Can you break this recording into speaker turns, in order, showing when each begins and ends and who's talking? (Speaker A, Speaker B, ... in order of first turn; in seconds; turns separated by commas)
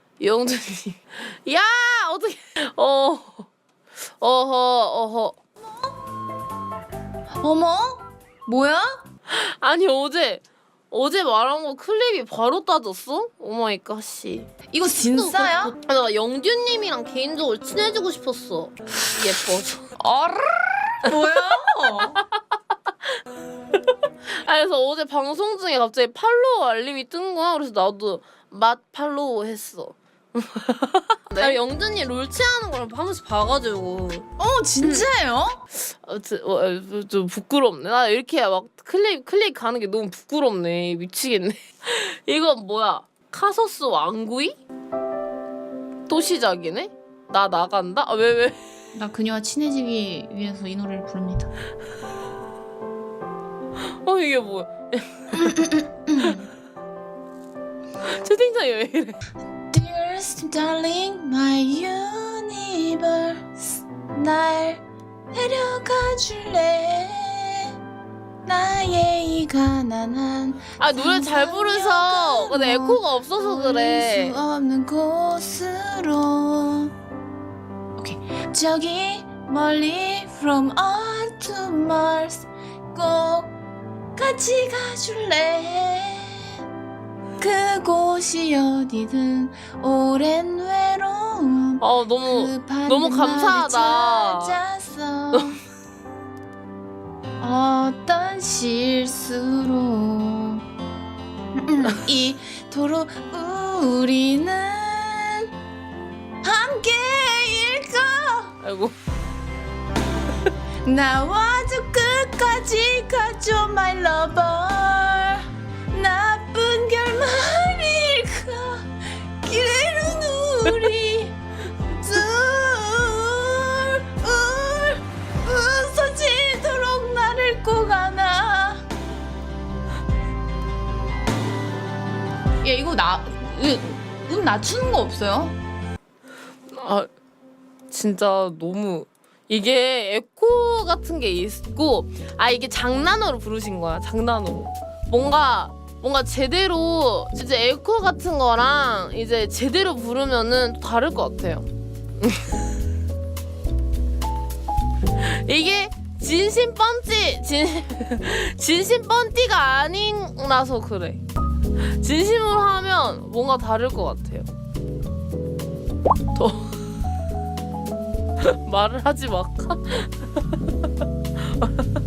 Speaker A: 0.2-3.5, Speaker A: 4.2-5.4, Speaker B: 7.4-8.9, Speaker A: 9.3-19.8, Speaker B: 14.7-15.7, Speaker B: 20.0-22.2, Speaker A: 24.3-34.3, Speaker B: 34.4-35.6, Speaker A: 35.7-44.6, Speaker A: 46.1-48.6, Speaker B: 48.9-51.5, Speaker A: 54.0-55.6, Speaker B: 55.3-56.5, Speaker A: 58.0-59.2, Speaker B: 59.7-63.6, Speaker B: 64.1-67.7, Speaker B: 68.4-76.9, Speaker A: 70.8-74.4, Speaker B: 78.0-83.5, Speaker B: 84.2-86.6, Speaker B: 87.4-95.6, Speaker A: 91.8-94.6, Speaker B: 97.4-100.6, Speaker B: 101.5-105.5, Speaker B: 106.4-108.6, Speaker A: 108.6-108.9, Speaker B: 110.8-121.3, Speaker B: 122.0-128.8, Speaker B: 132.6-135.6, Speaker A: 136.7-137.1, Speaker A: 137.9-151.7, Speaker A: 155.2-161.2, Speaker A: 161.8-164.5, Speaker A: 166.3-166.7, Speaker A: 168.4-170.6